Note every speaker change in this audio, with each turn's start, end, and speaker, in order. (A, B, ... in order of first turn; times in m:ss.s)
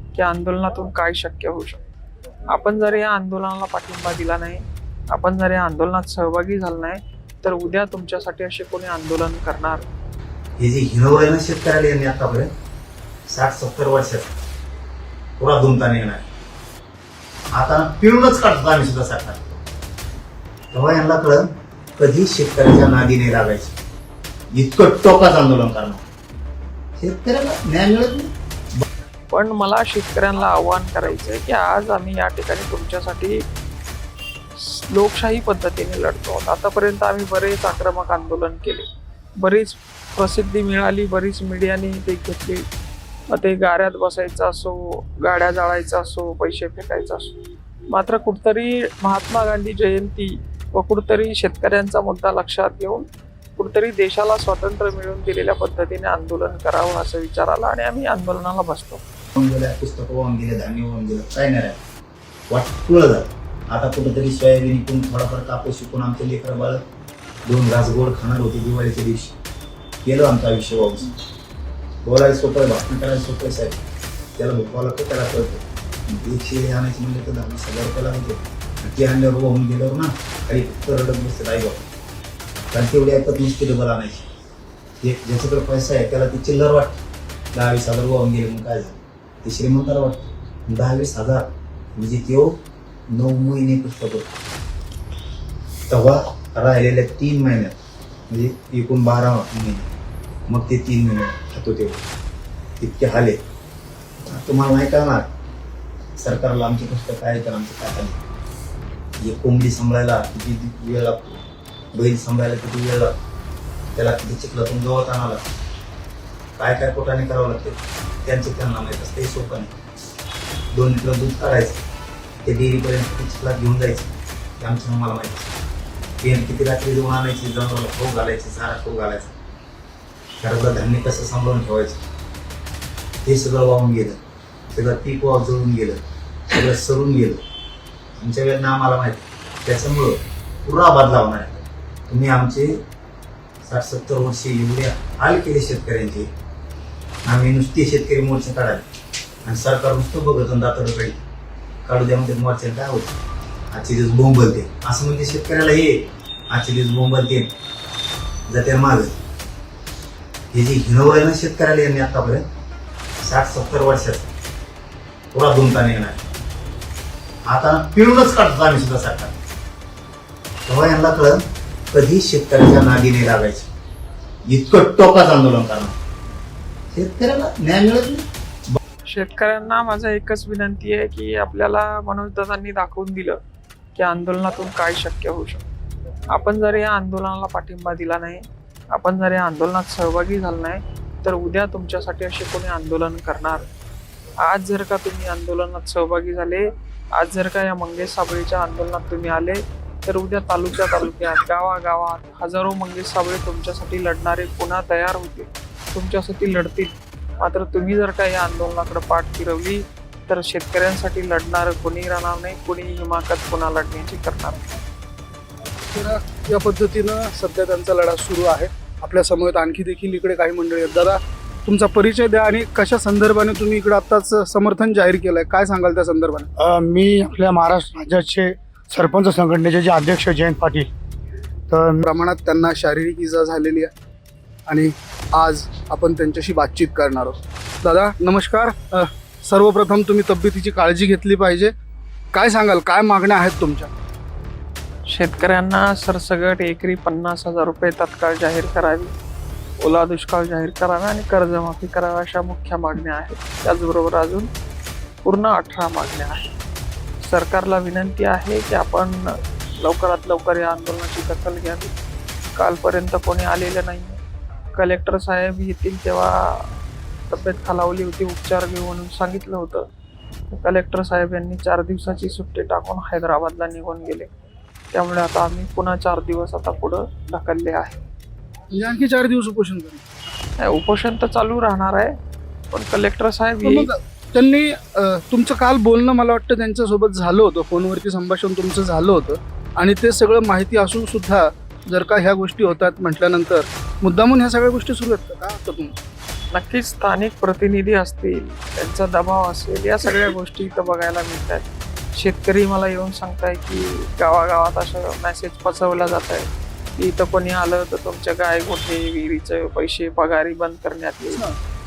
0:00.2-0:01.8 A
0:02.5-0:09.8 A
0:10.6-0:12.5 B
0:13.3-0:14.3 B
0:15.4-0:16.2 B
0:17.5-0:19.6 B
0:20.7-0:21.5 B
0:22.0-0:23.7 B
0:24.5-0:26.0 B
0:27.0-0:28.3 B
0:29.3-0:33.4 A
0:34.6-0:38.9 A
0:39.4-0:42.6 A
0:43.3-0:47.3 A
0:47.9-0:53.1 A
0:53.6-0:59.0 A
0:59.4-1:01.8 B
1:02.5-1:06.8 B
1:07.5-1:09.4 B
1:10.0-1:11.2 B
1:12.0-1:13.8 B
1:14.4-1:21.8 B
1:22.7-1:24.3 B
1:25.0-1:27.0 B
1:27.5-1:32.6 B
1:33.1-1:34.3 B
1:35.9-1:37.7 B
1:38.3-1:39.9 B
1:40.5-1:42.0 B
1:42.8-1:43.4 B
1:44.3-1:45.3 B
1:46.2-1:48.2 B
1:49.2-1:51.4 B
1:51.9-1:53.1 B
1:54.0-1:55.4 B
1:56.6-1:59.7 B
2:00.7-2:01.8 B
2:02.4-2:05.5 B
2:06.2-2:09.3 B
2:10.4-2:12.0 B
2:13.2-2:14.2 B
2:14.7-2:17.4 B
2:18.2-2:22.7 B
2:23.6-2:26.3 B
2:27.3-2:28.8 B
2:29.4-2:31.2 B
2:31.8-2:33.1 B
2:33.7-2:37.5 B
2:38.5-2:39.2 B
2:40.5-2:42.4 B
2:43.2-2:44.3 B
2:45.3-2:46.3 B
2:47.5-2:49.3 B
2:50.7-2:51.4 B
2:51.9-2:53.7 B
2:54.5-2:56.0 B
2:56.9-2:58.8 B
2:59.1-3:03.4 A
3:04.0-3:05.6 A
3:06.3-3:13.6 A
3:14.4-3:34.6 A
3:35.9-3:46.5 C
3:46.6-3:50.9 D
3:51.7-3:52.0 D
3:52.1-3:53.9 C
3:54.7-4:01.7 C
4:02.3-4:03.9 C
4:05.1-4:09.1 A
4:09.8-4:14.5 A
4:15.2-4:16.5 A
4:17.2-4:21.9 A
4:22.6-4:24.2 A
4:24.8-4:26.7 A
4:27.3-4:29.8 A
4:30.5-4:34.3 A
4:34.9-4:38.0 A
4:38.7-4:40.0 C
4:40.6-4:42.1 A
4:42.7-4:43.9 A
4:43.6-4:55.9 C
4:56.5-5:01.6 A
5:02.2-5:11.4 A